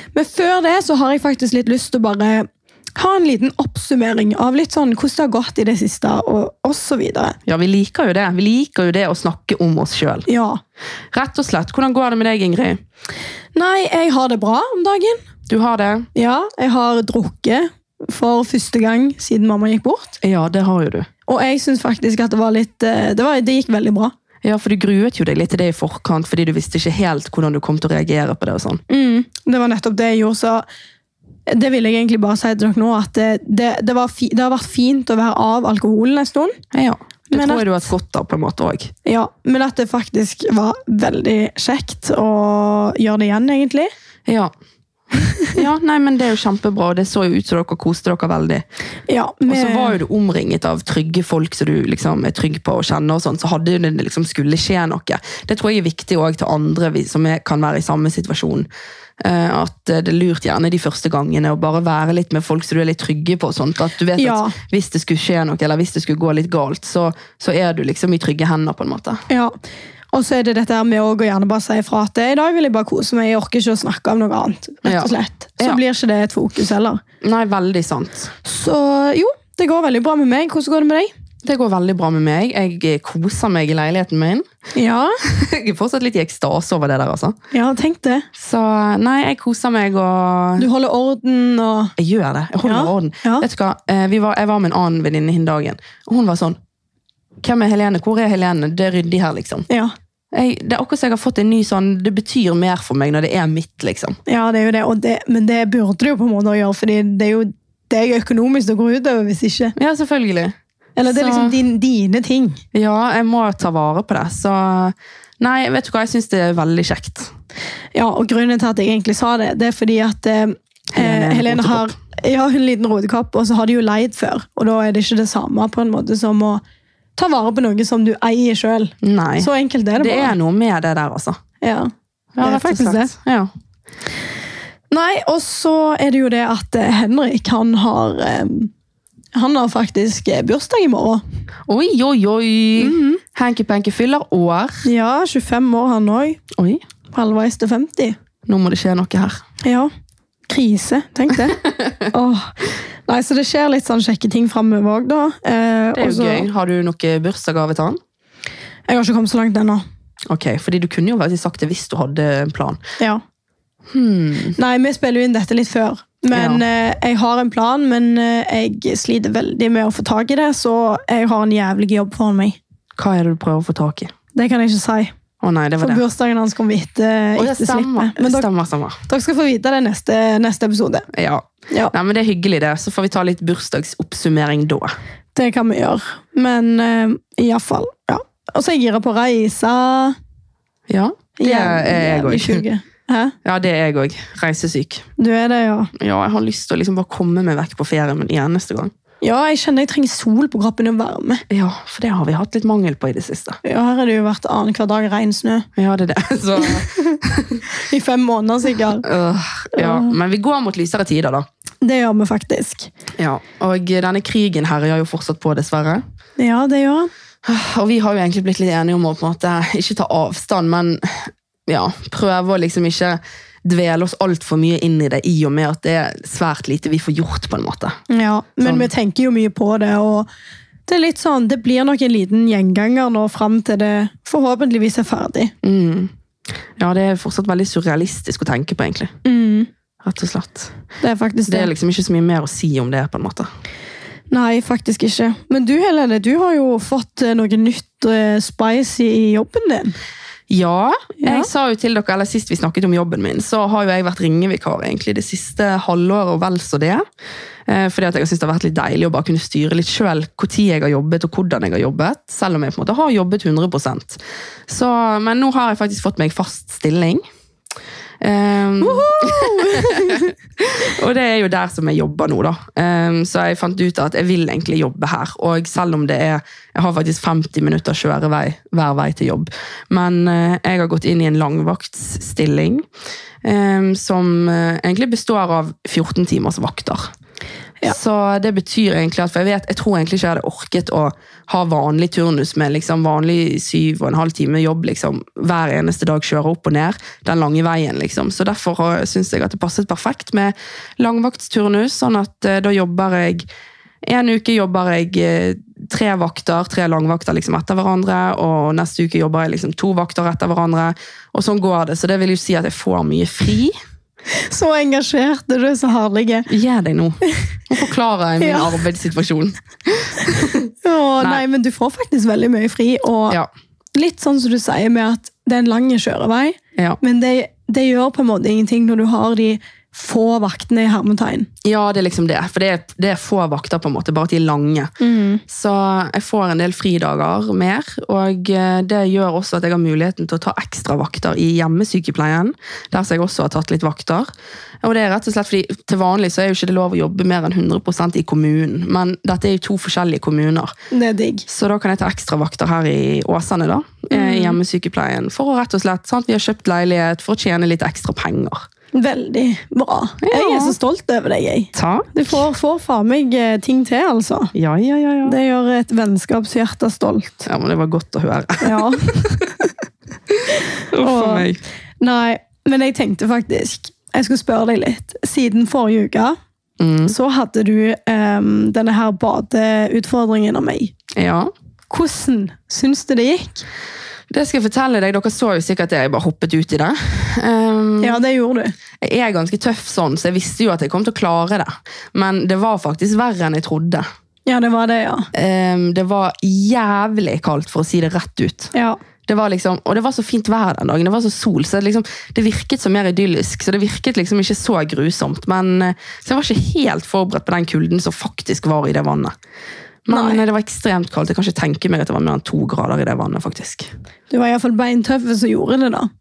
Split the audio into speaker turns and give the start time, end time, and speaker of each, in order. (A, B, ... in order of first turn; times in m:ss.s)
0:00.1-0:07.4 A
0:07.5-0:10.3 B
0:10.3-0:10.6 A
0:11.1-0:12.8 B
0:13.6-0:15.2 A
0:15.5-0:16.1 B
0:16.2-0:20.2 A
0:20.2-0:21.1 B
0:21.3-0:24.1 A
0:24.4-0:28.8 B
0:28.9-0:30.6 A
0:31.5-0:36.6 A
0:36.7-0:38.9 B
0:37.3-0:37.7 A
0:39.1-0:43.9 A
0:44.3-0:44.5 B
0:45.2-0:48.6 B
0:49.1-0:50.0 A
0:49.5-0:58.7 B
0:59.2-1:09.2 B
1:04.2-1:04.6 A
1:09.3-1:09.5 A
1:10.1-1:17.0 A
1:14.8-1:15.8 B
1:17.2-1:18.3 B
1:18.4-1:21.1 A
1:21.4-1:24.4 B
1:24.8-1:25.2 A
1:25.2-1:27.4 B
1:27.5-1:28.3 A
1:28.4-1:30.7 B
1:30.6-1:31.9 A
1:32.0-1:36.6 B
1:32.6-1:33.4 A
1:37.4-1:39.7 B
1:39.7-1:39.9 A
1:40.3-1:44.2 B
1:44.3-1:49.7 A
1:49.8-1:51.6 B
1:51.0-1:52.6 A
1:52.7-1:57.3 B
1:57.9-2:06.6 A
2:00.9-2:01.9 B
2:07.2-2:10.4 A
2:09.0-2:11.4 B
2:11.6-2:13.1 A
2:12.4-2:13.5 B
2:14.9-2:18.7 A
2:19.4-2:21.2 A
2:21.7-2:24.8 B
2:22.8-2:23.2 A
2:24.8-2:26.4 A
2:26.5-2:26.8 B
2:27.1-2:28.2 A
2:28.5-2:29.4 B
2:29.6-2:29.9 A
2:30.5-2:32.5 A
2:33.1-2:36.5 A
2:36.0-2:38.0 B
2:38.9-2:39.8 A
2:40.3-2:42.8 B
2:43.9-2:44.6 B
2:44.6-2:52.6 A
2:46.3-2:46.6 B
2:53.0-2:54.1 B
2:54.4-2:55.1 A
2:55.4-2:56.0 B
2:55.8-2:58.5 A
2:57.4-2:59.0 B
2:59.1-3:01.1 A
3:01.1-3:04.9 B
3:05.4-3:10.2 A
3:10.9-3:12.6 B
3:11.4-3:13.3 A
3:13.4-3:15.0 B
3:15.2-3:15.9 A
3:16.0-3:18.9 B
3:19.2-3:21.4 A
3:21.5-3:23.6 B
3:23.6-3:25.7 A
3:25.8-3:27.6 B
3:26.9-3:27.2 A
3:27.7-3:29.0 A
3:29.0-3:31.5 B
3:29.8-3:30.1 A
3:31.8-3:32.9 A
3:33.2-3:36.0 B
3:36.4-3:37.1 A
3:37.4-3:48.0 B
3:48.1-3:50.3 A
3:48.6-3:48.9 B
3:50.9-3:55.5 A
3:55.6-3:56.1 B
3:56.8-3:59.1 B
3:59.2-3:59.7 A
4:00.0-4:00.7 B
4:01.0-4:01.7 A
4:01.5-4:03.5 B
4:04.3-4:10.0 A
4:10.5-4:17.0 B
4:11.2-4:11.5 A
4:17.7-4:27.2 B
4:28.2-4:42.8 B
4:28.8-4:30.3 A
4:43.4-4:47.1 B
4:47.8-5:03.5 B
5:04.0-5:13.8 B
5:14.4-5:16.5 A
5:16.5-5:21.4 B
5:18.4-5:18.7 A
5:20.8-5:23.4 A
5:24.0-5:31.5 A
5:31.6-5:34.9 B
5:35.0-5:35.4 A
5:35.5-5:44.3 B
5:44.8-5:50.7 B
5:50.9-5:51.4 A
5:51.5-5:58.6 B
5:54.1-5:54.6 A
5:58.9-6:04.5 A
6:00.2-6:00.8 B
6:01.8-6:02.4 B
6:04.6-6:05.4 B
6:05.2-6:07.5 A
6:07.5-6:09.5 B
6:08.6-6:09.4 A
6:10.3-6:11.6 B
6:11.0-6:11.5 A
6:12.0-6:16.4 A
6:16.8-6:17.2 B
6:17.1-6:21.0 A
6:21.2-6:21.5 B
6:21.9-6:23.6 A
6:24.3-6:28.2 B
6:28.0-6:28.7 A
6:29.0-6:34.0 B
6:34.5-6:35.3 A
6:35.3-6:38.7 B
6:38.7-6:39.0 A
6:39.3-6:49.4 B
6:50.1-6:53.9 B
6:50.1-6:50.4 A
6:54.3-6:56.1 A